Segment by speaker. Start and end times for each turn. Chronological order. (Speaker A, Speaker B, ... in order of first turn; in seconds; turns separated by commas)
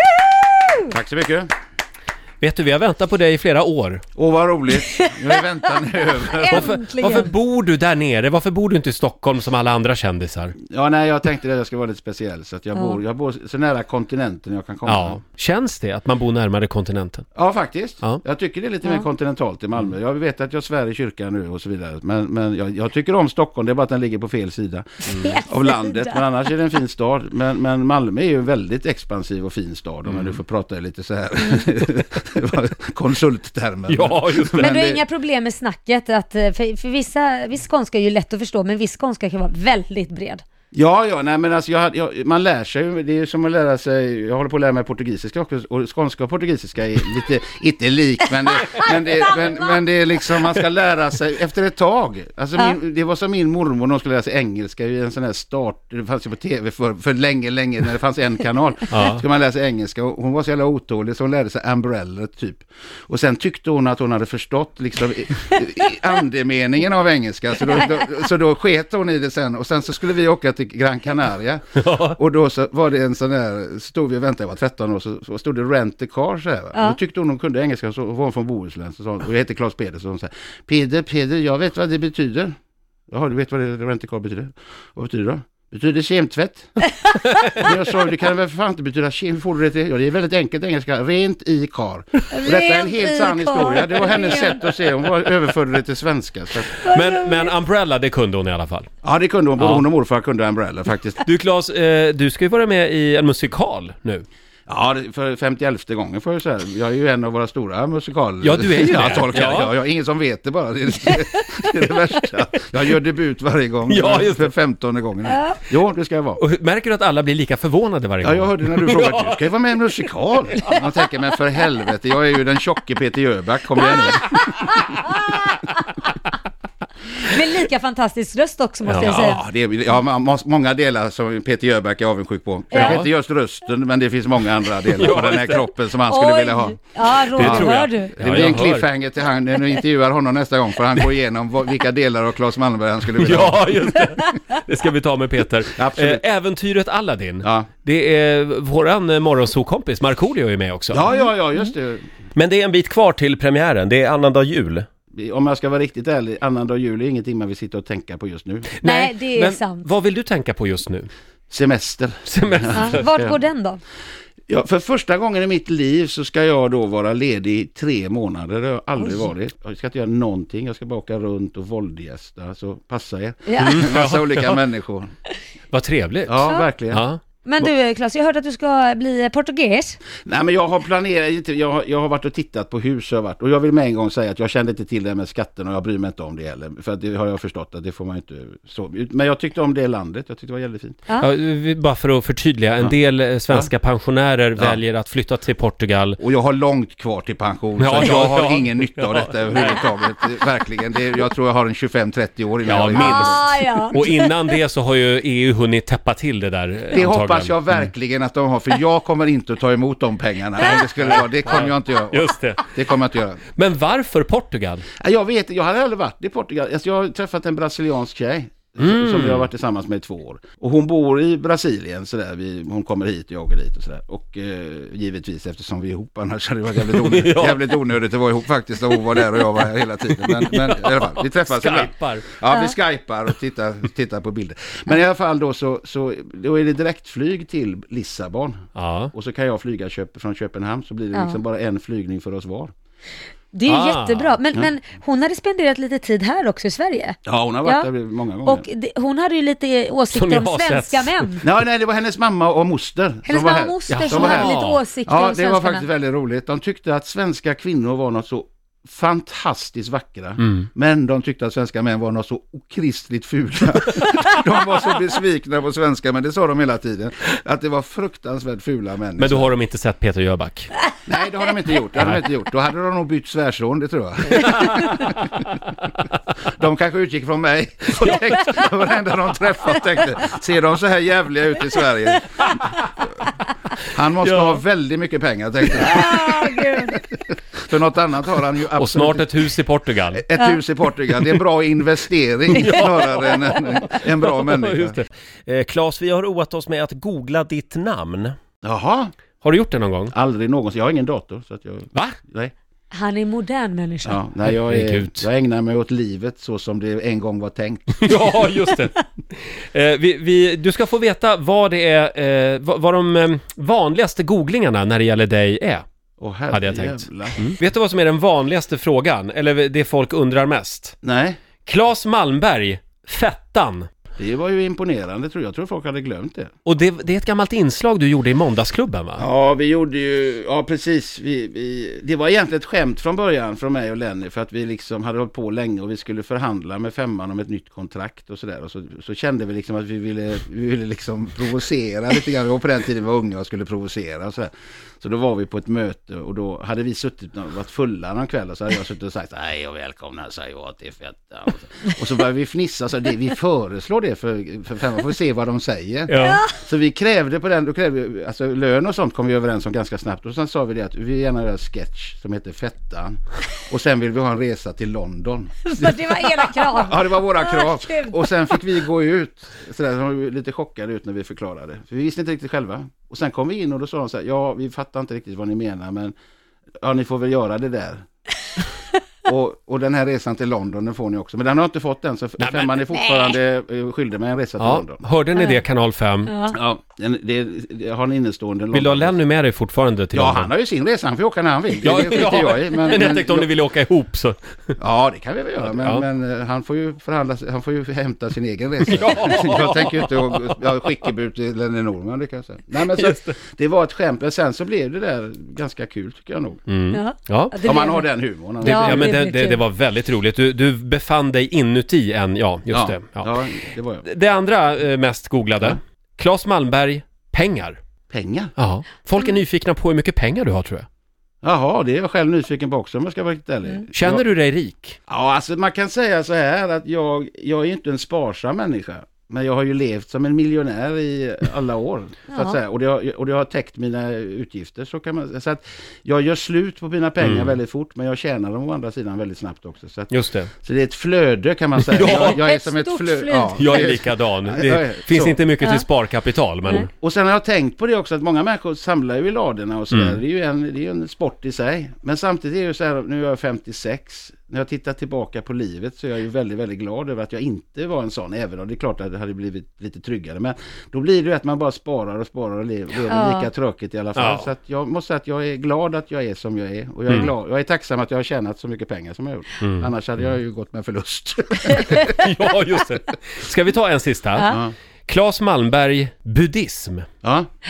Speaker A: 0.2-0.8, Speaker B: 0.9-1.5, Speaker C: 2.4-4.0, Speaker B: 4.2-6.8, Speaker A: 4.8-5.1, Speaker A: 6.3-7.3, Speaker C: 6.5-10.6, Speaker B: 10.7-15.2, Speaker A: 12.7-13.0, Speaker C: 14.8-17.2, Speaker B: 17.3-35.0, Speaker A: 25.1-26.2, Speaker C: 30.1-30.3, Speaker C: 33.9-34.8, Speaker A: 34.6-40.4, Speaker B: 40.7-82.5, Speaker C: 58.9-59.2, Speaker C: 71.8-72.2, Speaker B: 83.1-86.8, Speaker B: 87.5-96.7, Speaker A: 92.3-94.7, Speaker C: 96.8-98.9, Speaker A: 96.8-97.5, Speaker B: 99.0-101.2, Speaker C: 99.6-99.8, Speaker C: 101.2-104.2, Speaker B: 104.7-116.4, Speaker C: 108.4-109.7, Speaker A: 111.1-111.6, Speaker C: 113.9-114.5, Speaker A: 115.3-115.6, Speaker C: 116.4-119.4, Speaker B: 118.2-124.7, Speaker A: 127.2-129.4, Speaker C: 128.8-129.2, Speaker B: 129.0-136.8, Speaker A: 132.7-133.0, Speaker C: 132.8-133.1, Speaker C: 134.9-135.7, Speaker A: 136.1-138.2, Speaker C: 137.1-138.8, Speaker B: 137.4-144.1, Speaker C: 143.1-151.1, Speaker B: 145.7-146.2, Speaker B: 147.4-147.7, Speaker B: 150.9-152.1, Speaker C: 152.3-154.9, Speaker B: 155.1-158.7, Speaker C: 158.8-161.1, Speaker A: 158.8-159.9, Speaker B: 161.5-163.4, Speaker C: 162.2-163.1, Speaker A: 162.7-163.8, Speaker B: 164.5-175.1, Speaker A: 173.5-173.8, Speaker C: 173.6-174.5, Speaker C: 175.7-177.2, Speaker B: 176.3-177.0, Speaker A: 177.4-180.0, Speaker B: 180.2-191.0, Speaker C: 191.2-196.2, Speaker B: 196.2-203.4, Speaker C: 197.8-199.8, Speaker C: 202.6-207.8, Speaker A: 202.8-204.6, Speaker B: 206.9-213.4, Speaker C: 211.0-212.7, Speaker C: 213.6-214.8, Speaker B: 215.0-238.6, Speaker C: 218.8-219.4, Speaker C: 226.9-227.8, Speaker C: 230.3-232.3, Speaker C: 238.7-239.1, Speaker B: 239.1-242.7, Speaker A: 241.1-241.4, Speaker A: 243.5-247.9, Speaker C: 243.7-244.4, Speaker B: 247.2-248.7, Speaker A: 248.4-251.4, Speaker C: 250.1-251.3, Speaker B: 251.4-269.5, Speaker A: 253.3-255.8, Speaker C: 253.9-254.8, Speaker C: 269.2-270.7, Speaker B: 271.1-275.4, Speaker B: 276.6-283.1, Speaker B: 283.9-289.3, Speaker C: 284.2-284.6, Speaker A: 285.8-287.0, Speaker C: 288.8-290.2, Speaker B: 290.1-295.0, Speaker C: 292.5-298.4, Speaker B: 298.6-299.1, Speaker C: 299.4-300.1, Speaker B: 300.1-302.5, Speaker A: 302.9-304.2, Speaker B: 304.0-308.3, Speaker C: 304.4-305.3, Speaker C: 308.0-315.8, Speaker B: 316.2-317.5, Speaker C: 316.5-320.9, Speaker B: 321.0-321.4, Speaker C: 321.6-323.9, Speaker B: 324.2-326.5, Speaker C: 326.6-329.2, Speaker B: 329.2-376.1, Speaker C: 356.1-356.4, Speaker A: 356.2-356.5, Speaker A: 365.6-368.5, Speaker B: 376.8-378.0, Speaker B: 379.2-385.0, Speaker C: 382.4-382.7, Speaker A: 383.1-383.3, Speaker C: 384.6-386.3, Speaker A: 385.4-385.6, Speaker A: 386.3-386.6, Speaker B: 386.5-389.2, Speaker C: 388.7-390.5, Speaker B: 390.1-393.5, Speaker C: 391.8-394.4, Speaker B: 394.8-406.6, Speaker C: 395.7-396.0, Speaker C: 398.8-400.3, Speaker C: 402.9-403.3, Speaker C: 406.7-407.6, Speaker A: 406.9-408.1, Speaker B: 407.6-409.1, Speaker A: 408.6-409.6, Speaker C: 408.6-413.3, Speaker B: 412.7-414.1, Speaker C: 414.0-417.8, Speaker B: 418.1-418.5, Speaker C: 418.6-420.9, Speaker B: 421.4-424.2, Speaker C: 423.9-425.0, Speaker B: 425.1-440.1, Speaker A: 432.3-432.6, Speaker C: 437.2-437.6, Speaker C: 440.1-440.5, Speaker B: 440.6-445.4, Speaker C: 441.8-442.4, Speaker A: 442.0-443.9, Speaker C: 443.5-446.9, Speaker B: 446.8-472.5, Speaker C: 449.9-450.2, Speaker A: 463.1-463.5, Speaker C: 464.1-464.5, Speaker C: 469.6-469.9, Speaker C: 472.1-477.1, Speaker B: 474.4-474.7, Speaker B: 477.2-477.5